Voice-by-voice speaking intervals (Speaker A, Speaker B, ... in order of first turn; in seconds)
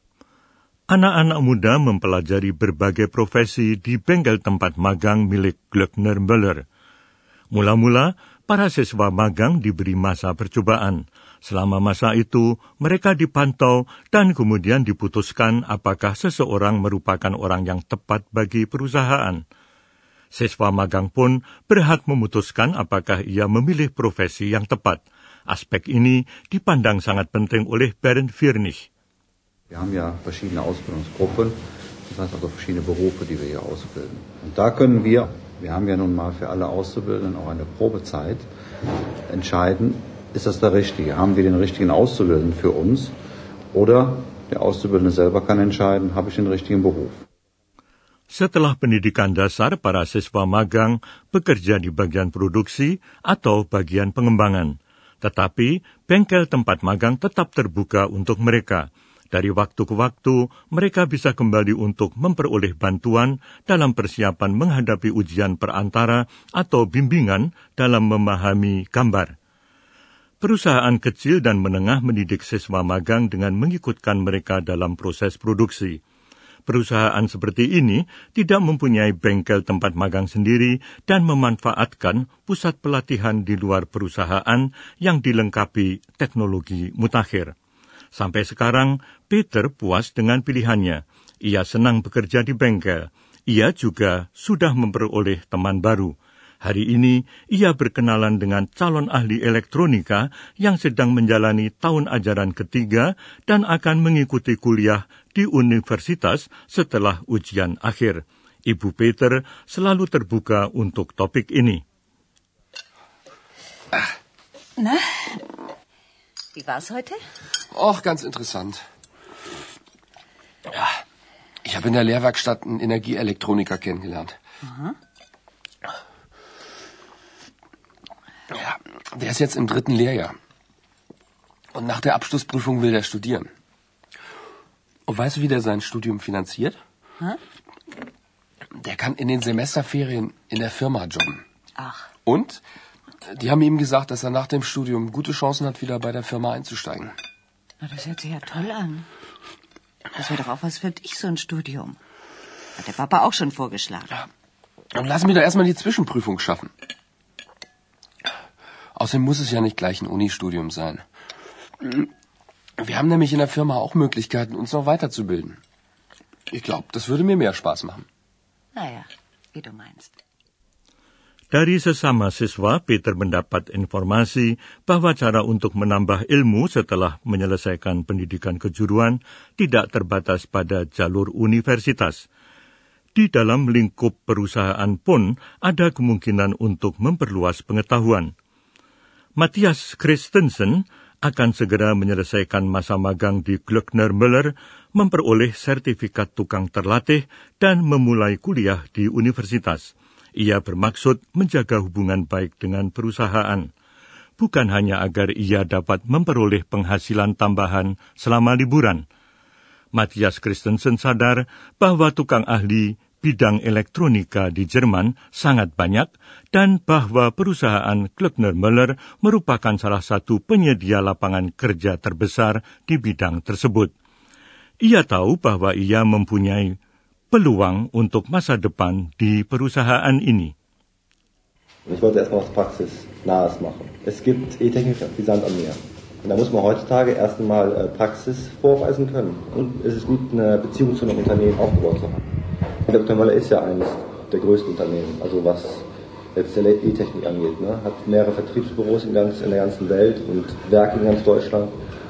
Speaker A: 0.9-6.6, 7.5-19.4, 20.3-28.9, 48.3-69.3, 70.4-76.0, 76.7-87.5, 88.2-111.8, 171.5-182.3, 183.2-188.3, 189.4-203.7, 204.4-209.0, 209.9-223.9, 224.9-226.8, 227.3-230.5
Speaker B: 29.7-38.5, 39.3-43.1, 43.7-47.3
Speaker C: 114.8-115.4, 116.5-117.2, 124.7-125.0, 141.8-142.1, 147.8-149.1, 150.2-152.0, 152.8-154.2, 168.7-170.1
Speaker D: 117.7-118.8, 120.7-121.0, 121.6-124.4, 128.5-130.4, 131.7-133.5, 135.1-136.8, 138.7-141.4, 142.2-142.6, 143.2-147.1, 154.9-156.7, 158.9-161.0, 161.8-162.1, 162.8-165.6, 166.5-168.1
Speaker E: 231.9-242.3, 242.9-251.7